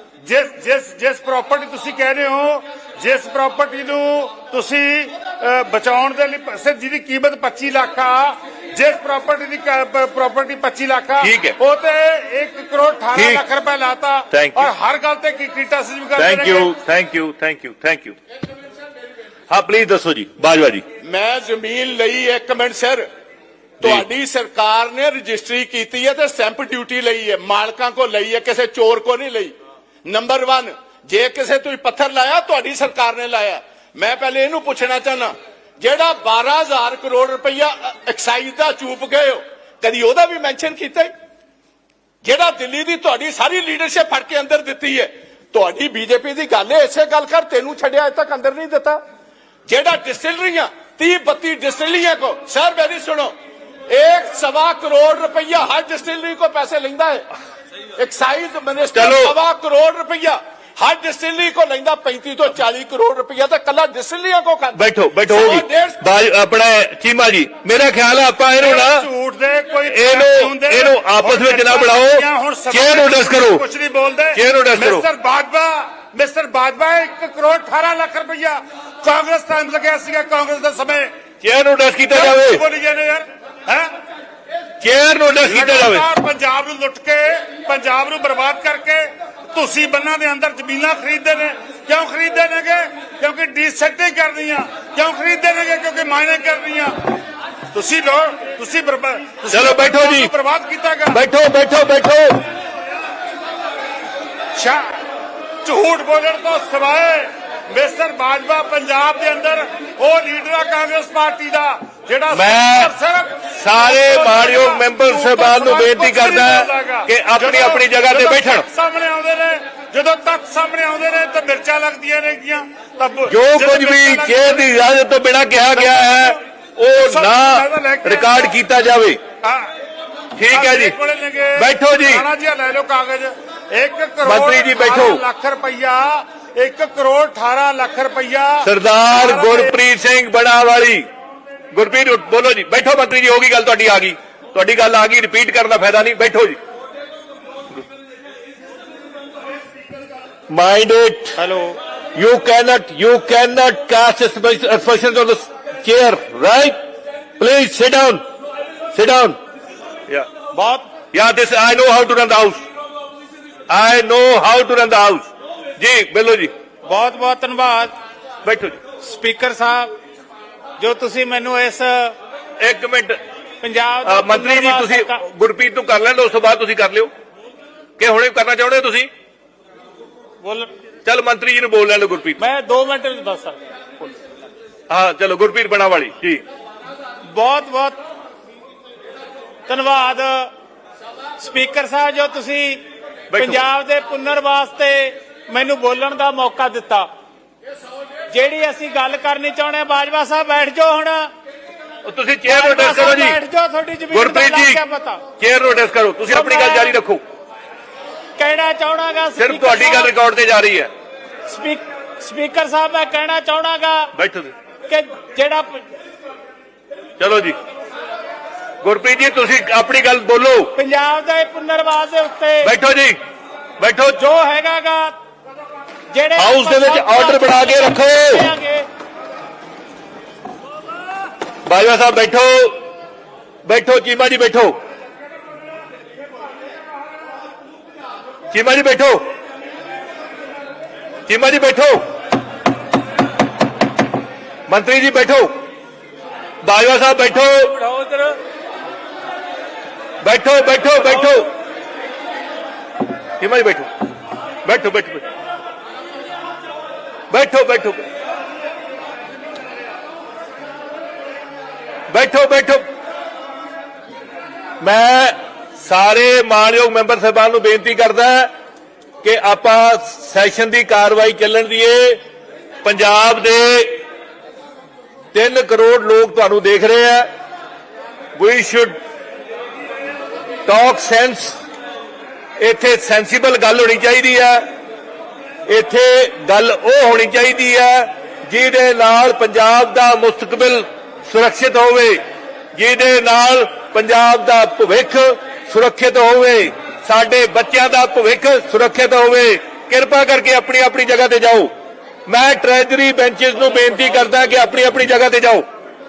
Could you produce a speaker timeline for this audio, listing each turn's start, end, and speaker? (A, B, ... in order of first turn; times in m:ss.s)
0:00.2-0:16.7 A
0:11.2-0:11.6 B
0:13.1-0:13.4 B
0:14.3-0:14.7 B
0:16.2-0:18.2 B
0:19.5-0:20.8 B
0:21.0-0:23.1 C
0:23.8-0:41.1 C
0:23.8-0:24.0 B
0:42.2-0:49.0 C
0:49.7-0:53.3 C
0:53.9-0:57.3 C
0:58.0-1:06.0 C
0:58.9-0:59.3 B
1:04.7-1:09.1 B
1:08.6-1:21.1 A
1:09.9-1:13.6 B
1:14.3-1:15.0 B
1:21.4-1:22.6 B
1:22.1-1:23.9 A
1:24.8-1:26.0 B
1:25.4-1:36.9 A
1:37.7-1:41.2 A
1:39.5-1:40.3 B
1:41.1-1:42.4 B
1:44.5-1:45.0 A
1:45.6-2:04.7 A
1:52.3-1:52.9 B
1:53.5-1:58.6 B
2:03.3-2:09.2 B
2:05.7-2:06.4 A
2:07.0-2:08.5 A
2:09.4-2:09.7 A
2:10.4-2:11.0 B
2:10.5-2:19.8 A
2:11.6-2:12.2 B
2:14.2-2:15.2 B
2:18.6-2:21.0 B
2:21.7-2:26.6 B
2:30.5-2:31.4 B
2:31.4-2:31.8 D
2:32.1-2:36.8 B
2:37.4-2:38.2 B
2:38.9-2:39.4 B
2:40.5-2:40.9 D
2:41.1-2:42.6 B
2:43.7-2:46.5 B
2:46.8-2:47.9 D
2:48.4-2:48.8 B
2:49.0-2:49.9 D
2:50.8-2:52.1 D
2:52.6-2:53.2 B
2:53.6-2:55.2 D
2:54.0-2:57.1 B
2:58.0-2:59.1 B
3:00.4-3:00.7 D
3:01.0-3:02.4 B
3:02.4-3:03.6 D
3:04.9-3:06.4 B
3:07.3-3:08.0 D
3:09.7-3:10.5 D
3:11.4-3:12.8 D
3:13.3-3:13.6 B
3:13.3-3:17.1 D
3:18.3-3:21.3 D
3:22.0-3:23.4 B
3:22.4-3:25.2 D
3:24.1-3:24.8 B
3:25.4-3:27.2 B
3:26.3-3:26.9 D
3:28.4-3:30.1 D
3:29.4-3:30.9 B
3:31.5-3:34.1 D
3:34.1-3:34.5 B
3:34.9-3:35.8 D
3:37.2-3:37.6 B
3:38.8-3:40.8 B
3:40.7-3:42.7 D
3:42.6-3:43.2 B
3:43.8-3:44.2 B
3:44.1-3:45.1 D
3:46.1-3:48.8 D
3:46.4-3:48.5 B
3:51.6-3:52.8 B
3:53.6-3:54.8 B
3:58.5-3:59.2 B
4:01.3-4:02.0 B
4:04.7-4:05.5 B
4:06.6-4:07.8 B
4:07.9-4:08.3 D
4:10.2-4:11.5 B
4:13.4-4:13.9 B
4:14.6-4:15.2 B
4:17.3-4:18.0 B
4:22.1-4:22.8 B
4:24.8-4:28.5 B
4:29.2-4:32.2 B
4:32.8-4:34.0 B
4:35.3-4:37.3 B
4:38.3-4:39.0 B
4:40.6-4:41.6 B
4:42.6-4:44.7 B
4:45.7-4:52.2 B
4:52.8-5:01.7 B
5:02.3-5:05.6 B